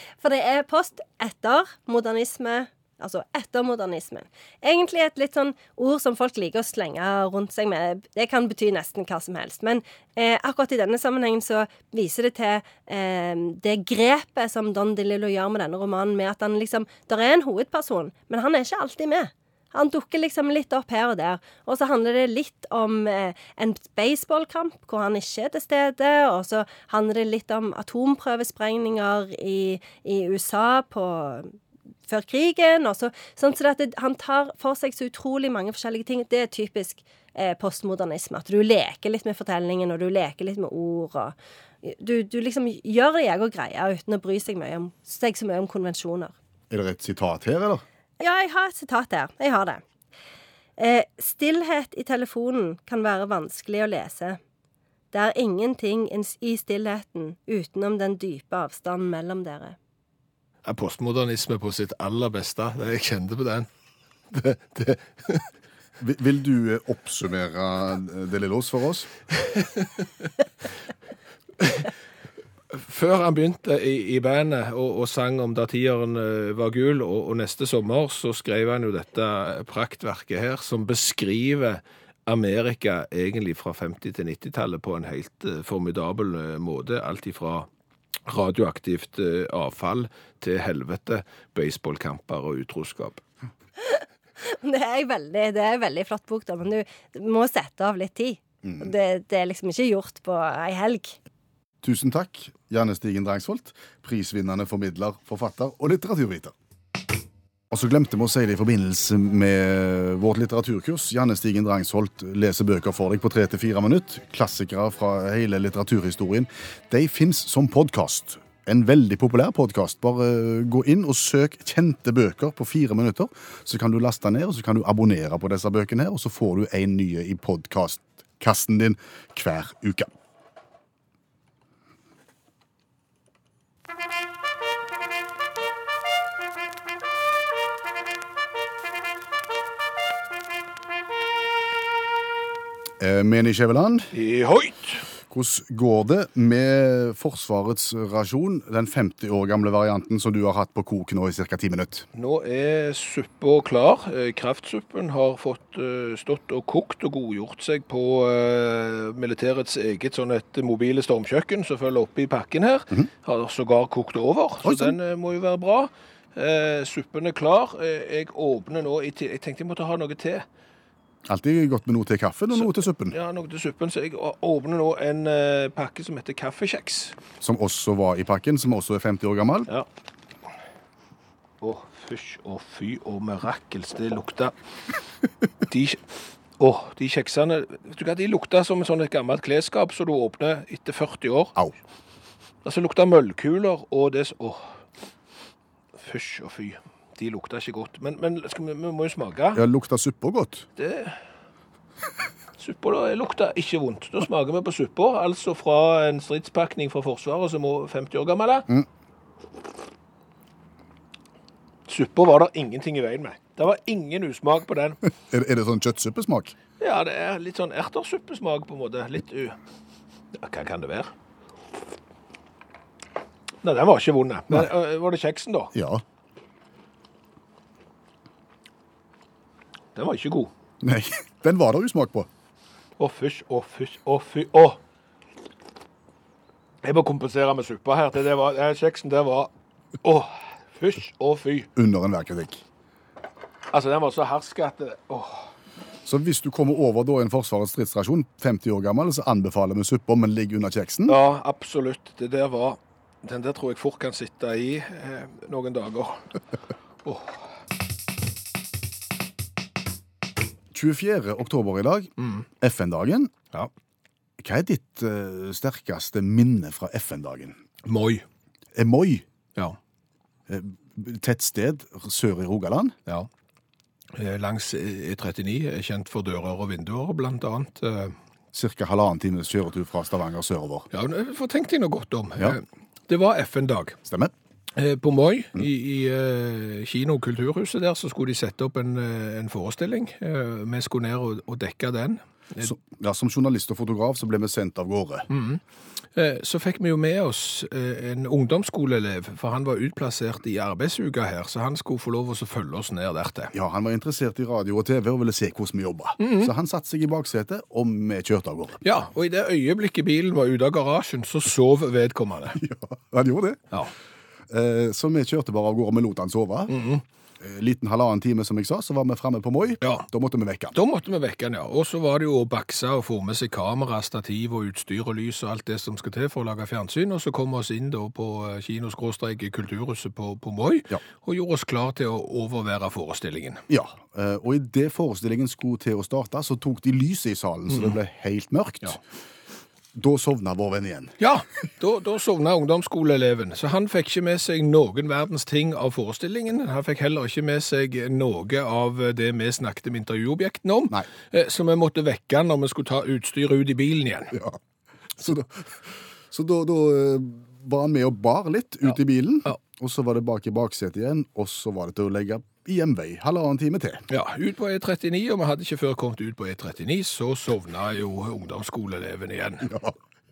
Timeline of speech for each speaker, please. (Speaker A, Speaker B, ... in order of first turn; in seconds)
Speaker A: 0.2-31.5, 32.1-46.3, 48.2-49.8, 50.8-54.4, 55.1-59.8, 93.8-101.2
Speaker B: 46.7-47.8, 66.0-69.1, 101.8-106.5, 107.7-130.1, 143.0-144.1, 145.3-152.0, 164.6-165.0, 171.3-173.2, 177.4-179.7, 199.5-200.7, 215.3-216.5, 225.7-226.0, 230.8-232.3, 241.8-242.6, 246.0-251.2, 260.7-263.3, 264.4-267.6, 268.7-269.2, 270.5-272.9, 278.5-280.9, 284.1-284.3, 292.6-295.3, 303.5-308.8, 312.6-313.6, 314.5-316.8, 317.4-320.8, 333.7-339.0, 339.9-341.1, 354.3-354.6, 355.2-355.8, 356.3-364.0, 369.6-369.9
Speaker C: 60.6-63.7, 64.3-65.5, 69.4-70.3, 71.6-71.9, 72.7-87.7, 88.3-93.2, 144.1-145.1, 152.1-170.4, 172.5-177.2, 181.6-184.5, 185.7-191.6, 192.6-194.8, 195.9-199.6, 200.8-201.2, 202.6-208.7, 211.9-215.0, 216.8-219.6, 220.3-221.1, 223.6-225.7, 229.9-230.5, 233.0-234.8, 236.8-239.5, 240.0-241.7, 243.7-245.5, 251.1-256.3, 257.0-257.4, 267.8-268.2, 274.1-278.2, 280.9-284.0, 284.8-292.7, 295.3-295.6, 296.1-303.5, 306.2-306.5, 308.8-312.6, 316.7-317.0, 320.7-333.6, 341.2-354.3, 364.1-369.7